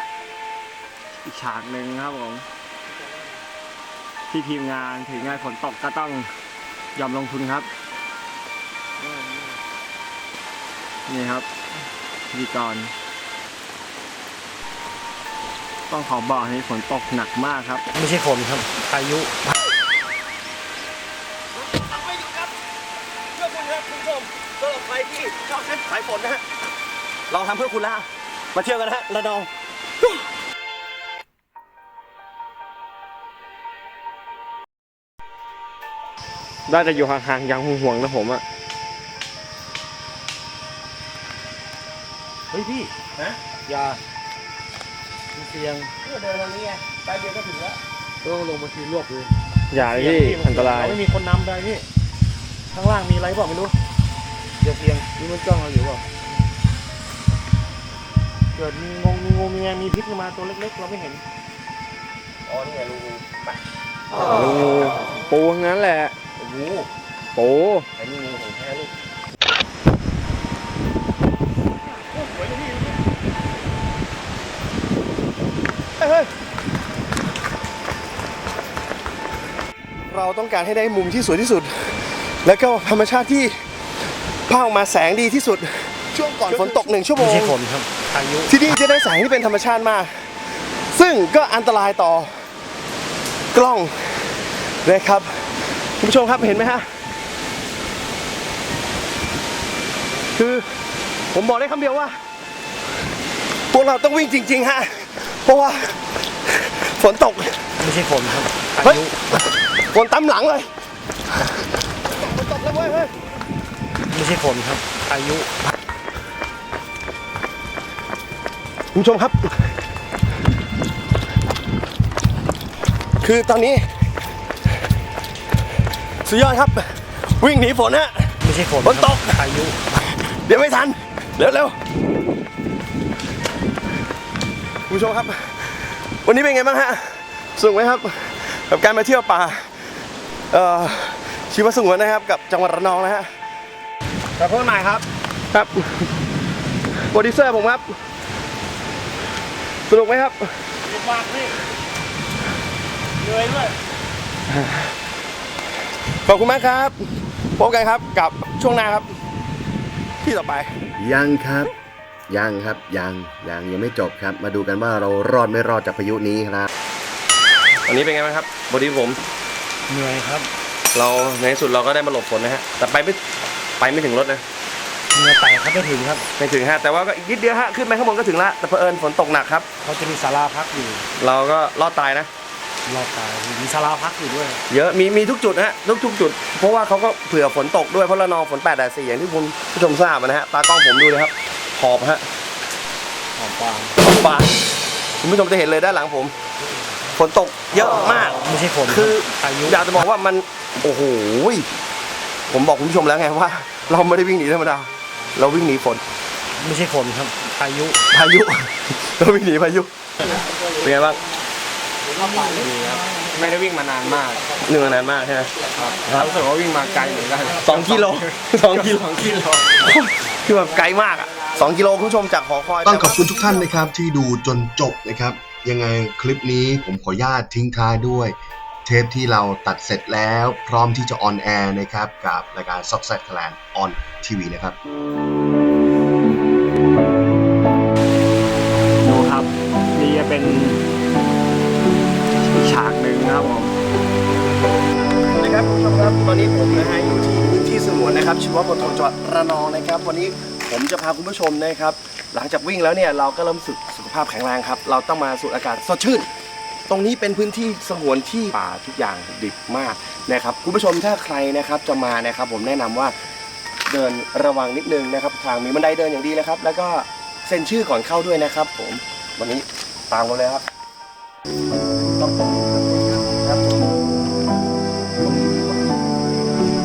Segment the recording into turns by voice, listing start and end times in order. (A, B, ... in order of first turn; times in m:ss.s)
0:01.2-0:02.4 A
0:04.3-0:06.3 A
0:07.0-0:07.7 A
0:11.1-0:11.5 A
0:12.3-0:12.9 A
0:15.9-0:17.8 A
0:17.9-0:19.3 B
0:21.6-0:22.5 C
0:23.3-0:26.4 C
0:27.3-0:29.5 C
0:36.7-0:38.4 A
0:42.5-0:42.9 B
0:43.7-0:44.0 B
0:45.3-0:45.9 B
0:46.0-0:47.8 C
0:48.2-0:51.8 B
0:49.7-0:51.0 A
0:52.7-0:53.7 B
0:54.6-0:56.1 B
0:58.6-1:01.2 B
1:02.4-1:03.6 C
1:04.2-1:06.2 A
1:06.4-1:06.9 C
1:07.3-1:07.9 A
1:08.0-1:08.9 C
1:16.0-1:16.3 C
1:20.1-1:23.6 C
1:24.5-1:27.6 C
1:27.2-1:28.5 B
1:28.5-1:30.3 C
1:30.9-1:32.4 C
1:33.5-1:36.9 C
1:40.3-1:40.7 C
1:41.3-1:42.2 C
1:43.7-1:47.7 C
1:47.8-1:49.1 B
1:48.8-1:50.7 C
1:52.0-1:53.1 C
1:54.1-1:55.5 B
1:58.9-1:59.7 C
2:03.2-2:03.9 C
2:06.2-2:09.4 C
2:08.4-2:09.8 B
2:10.0-2:11.8 C
2:14.9-2:19.9 C
2:20.5-2:23.3 C
2:24.4-2:26.1 C
2:27.1-2:28.0 C
2:29.9-2:30.7 C
2:30.9-2:31.5 B
2:33.3-2:33.7 B
2:34.5-2:34.9 C
2:36.2-2:37.0 C
2:37.6-2:39.1 C
2:40.2-2:40.8 C
2:41.0-2:41.7 D
2:42.3-2:46.7 D
2:47.8-2:49.2 C
2:49.9-2:50.5 B
2:50.9-2:53.2 C
2:53.8-2:54.4 C
2:55.1-2:56.2 B
2:56.4-2:59.7 C
2:59.8-3:01.0 B
3:01.2-3:02.3 C
3:02.9-3:04.6 B
3:04.7-3:12.3 C
3:13.4-3:13.9 B
3:14.0-3:14.6 C
3:15.2-3:16.4 C
3:17.2-3:21.7 C
3:18.3-3:19.9 B
3:22.5-3:26.0 C
3:26.6-3:28.0 B
3:28.1-3:29.9 C
3:30.8-3:31.2 C
3:32.4-3:34.6 A
3:34.6-3:35.6 C
3:35.7-3:39.8 A
3:37.6-3:39.0 C
3:39.8-3:43.3 C
3:42.8-3:54.8 E
3:59.0-4:00.8 A
4:02.4-4:03.7 A
4:05.3-4:16.3 C
4:16.9-4:23.1 C
4:23.9-4:30.6 C
4:32.0-4:34.1 C
4:35.2-4:36.0 C